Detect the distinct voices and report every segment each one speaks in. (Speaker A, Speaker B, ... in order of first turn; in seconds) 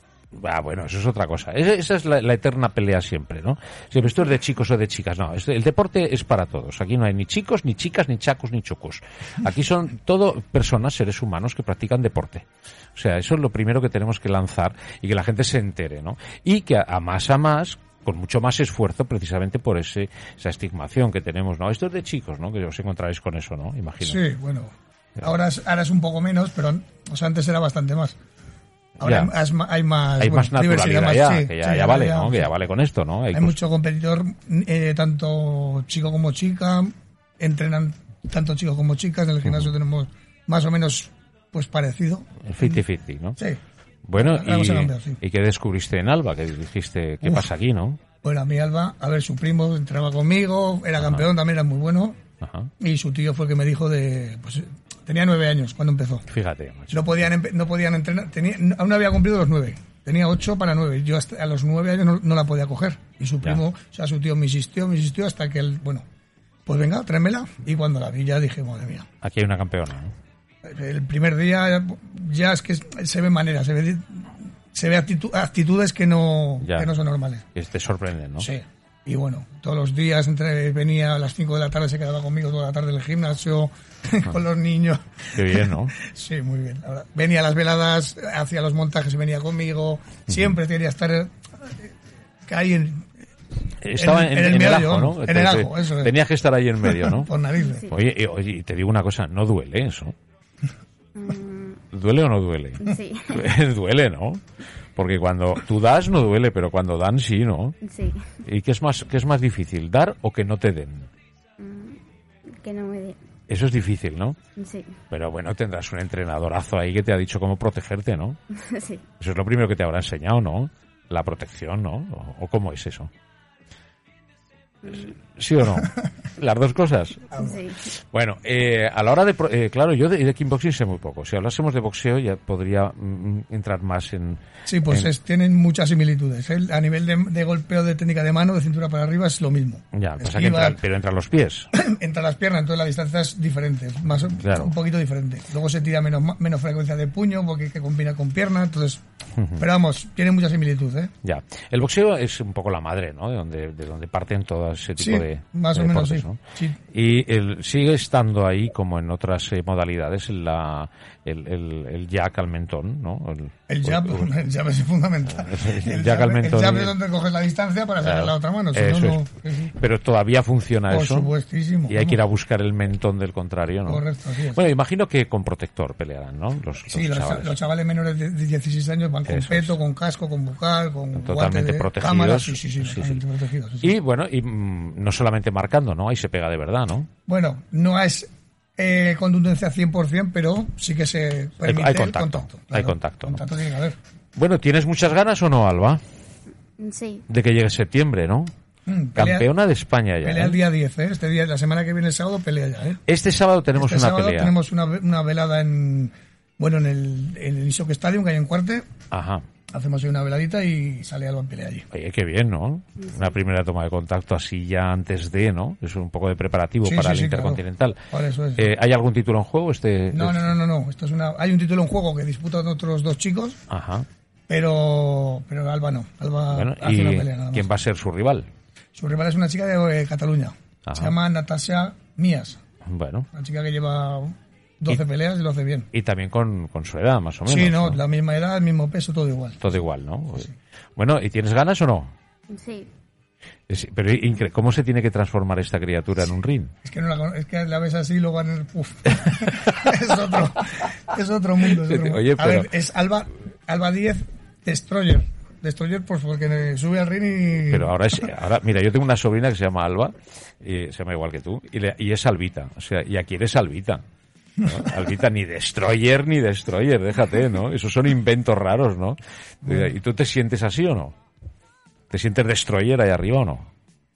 Speaker A: 0.3-24.2, 29.0-29.3, 30.2-33.6, 42.5-43.4, 44.1-48.0, 52.4-52.7, 56.3-57.3, 69.2-70.1, 76.6-76.9, 77.5-78.5, 85.3-85.9, 93.8-97.3, 97.9-100.1, 101.9-104.4, 105.0-107.7, 108.4-111.1, 113.5-114.4, 115.1-118.4, 119.2-123.1, 124.9-127.3, 127.8-135.1, 139.9-141.7, 144.4-144.7, 149.4-149.7, 151.2-156.4, 156.9-164.3, 165.3-166.9, 168.0-171.3, 171.9-177.5, 179.2-179.8, 181.1-183.2, 183.8-187.1, 191.6-193.4, 194.3-196.0, 197.3-198.5, 199.2-200.6, 203.1-204.6, 209.1-209.4, 211.9-218.0, 218.6-220.5, 223.7-224.1, 226.5-228.5, 230.9-231.2, 232.9-233.3, 235.9-238.0, 239.6-242.1, 243.7-246.7, 251.6-252.7, 257.7-264.0, 264.6-271.1, 272.1-273.7
Speaker B: 24.0-28.2, 29.0-32.5, 33.3-42.8, 44.2-45.2, 47.2-47.5, 48.2-52.2, 52.8-56.3, 56.9-66.0, 66.7-69.0, 70.6-77.4, 78.4-91.9, 92.5-93.1, 93.9-96.1, 96.8-97.9, 127.3-127.6, 134.7-140.8, 141.7-149.0, 149.6-151.1, 155.0-156.8, 163.7-169.7, 170.9-172.2, 173.8-174.7, 176.9-183.9, 187.3-194.0, 198.8-199.5, 200.2-203.0, 203.7-208.8, 209.7-211.8, 216.8-218.7, 220.1-223.6, 224.5-227.7, 228.9-232.6, 233.3-235.9, 237.4-239.8, 246.8-257.9, 269.6-269.9
Speaker C: 101.2-101.8, 102.8-103.4, 107.8-108.3, 111.6-112.0, 112.5-113.2, 114.5-114.9, 118.6-119.0, 127.4-127.8, 196.8-197.2, 242.5-242.9